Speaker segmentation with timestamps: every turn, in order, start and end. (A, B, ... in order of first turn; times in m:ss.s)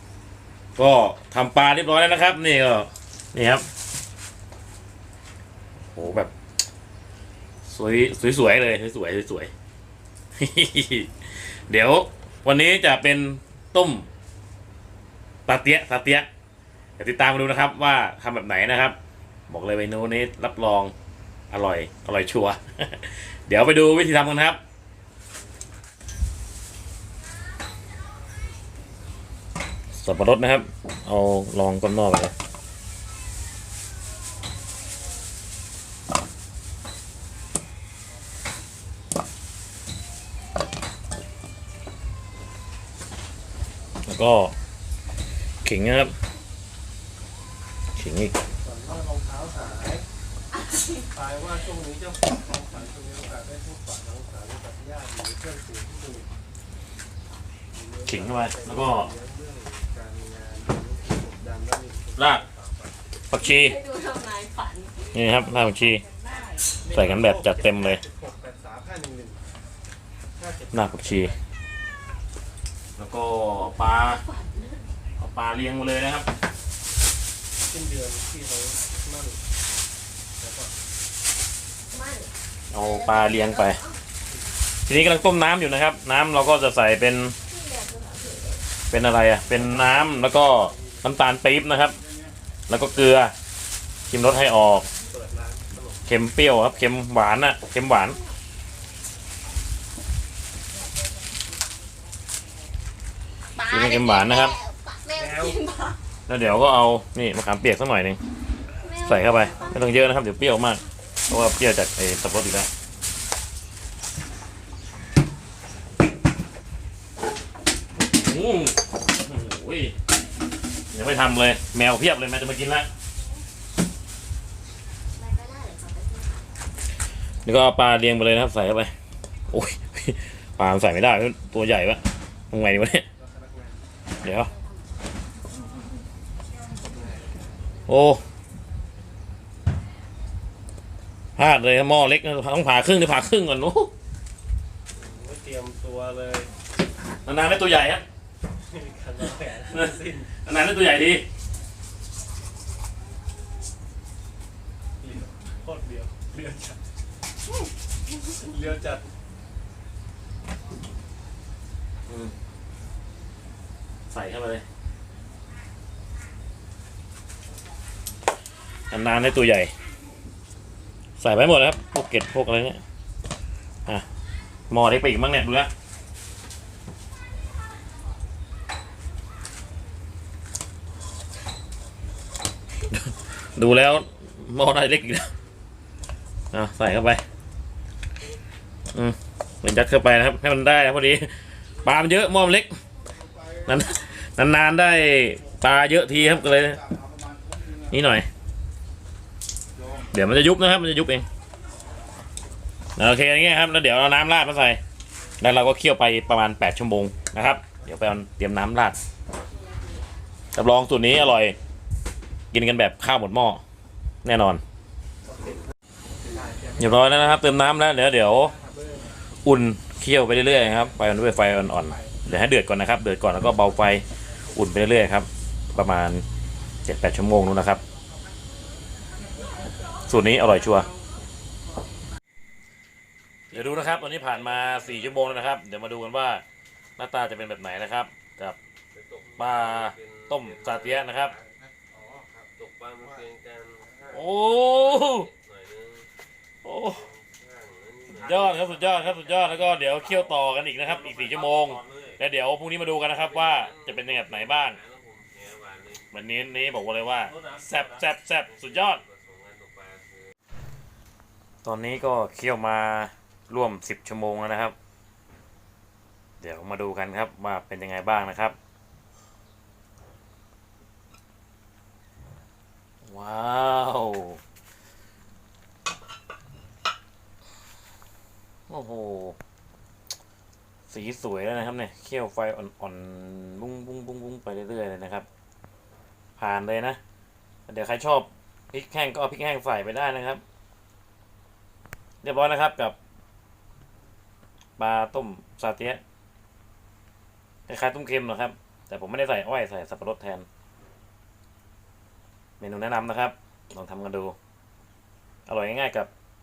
0:00.8-0:03.6 A
0:05.9-0:06.3 A
0:07.7-0:09.5 A
0:10.4-0:14.1 A
0:15.5-0:16.3 A
0:17.0-0:19.0 A
0:19.5-0:20.9 A
0:21.5-0:24.6 A
0:30.0-0:32.3 A
0:44.1-0:44.5 A
0:45.6-0:46.1 A
0:48.0-0:48.4 A
0:48.6-0:50.1 B
0:51.1-0:56.3 B
0:57.7-1:02.9 B
0:58.1-0:59.1 A
1:02.2-1:02.4 A
1:03.3-1:03.8 A
1:03.3-1:06.7 C
1:05.1-1:06.0 A
1:06.8-1:09.4 B
1:06.9-1:08.0 A
1:10.4-1:11.4 B
1:10.7-1:11.3 A
1:13.0-1:14.2 A
1:13.6-1:14.9 C
1:15.2-1:16.3 A
1:17.7-1:19.4 B
1:20.4-1:20.7 B
1:21.9-1:24.0 C
1:22.7-1:23.8 A
1:24.9-1:27.4 A
1:27.4-1:28.6 C
1:28.9-1:32.0 A
1:29.5-1:31.0 B
1:32.7-1:33.3 A
1:34.1-1:34.9 A
1:35.0-1:36.0 B
1:36.1-1:38.2 A
1:43.6-1:46.0 C
1:43.7-1:44.6 A
1:45.1-1:45.6 B
1:46.3-1:48.2 A
1:48.8-1:50.2 C
1:49.0-1:52.7 A
1:58.0-1:59.9 A
2:00.9-2:02.9 A
2:05.2-2:06.5 C
2:07.4-2:08.9 A
2:09.5-2:13.0 A
2:13.2-2:13.8 B
2:14.2-2:14.5 A
2:14.2-2:14.8 C
2:17.9-2:18.2 A
2:21.4-2:23.9 A
2:25.0-2:26.5 B
2:27.2-2:28.0 A
2:28.7-2:30.3 B
2:29.7-2:31.2 A
2:35.0-2:36.8 B
2:38.3-2:39.0 B
2:42.1-2:42.3 A
2:44.1-2:44.6 A
2:48.9-2:49.7 A
2:51.2-2:52.8 A
2:54.7-2:55.7 A
3:02.9-3:05.3 A
3:06.5-3:07.2 A
3:08.9-3:11.3 A
3:11.8-3:12.7 A
3:13.7-3:16.9 A
3:17.9-3:18.3 A
3:20.1-3:21.2 A
3:23.0-3:24.8 A
3:25.4-3:29.0 A
3:29.6-3:30.0 C
3:30.6-3:31.6 A
3:32.5-3:33.6 A
3:34.2-3:34.6 A
3:36.2-3:37.4 B
3:36.8-3:38.5 A
3:38.4-3:39.1 B
3:39.4-3:46.2 A
3:46.8-3:47.8 A
3:50.1-3:50.9 A
3:53.5-3:56.4 A
3:53.9-3:54.9 B
3:57.0-3:58.6 A
3:58.9-4:00.0 B
3:59.4-4:01.3 A
4:00.9-4:01.4 B
4:02.5-4:04.2 B
4:04.1-4:05.3 A
4:05.0-4:06.0 B
4:06.6-4:07.0 A
4:06.9-4:10.0 B
4:08.1-4:14.8 A
4:11.0-4:12.0 B
4:13.7-4:14.2 B
4:14.8-4:15.7 B
4:16.1-4:19.0 A
4:17.3-4:18.0 B
4:18.7-4:20.1 B
4:21.6-4:24.8 A
4:26.4-4:28.6 A
4:33.0-4:34.4 A
4:38.7-4:39.4 A
4:40.9-4:45.3 A
4:46.4-4:47.0 A
4:47.7-4:50.4 A
4:52.2-4:53.0 A
4:54.8-4:56.0 A
4:57.7-5:00.5 A
5:02.6-5:04.4 A
5:05.5-5:06.1 A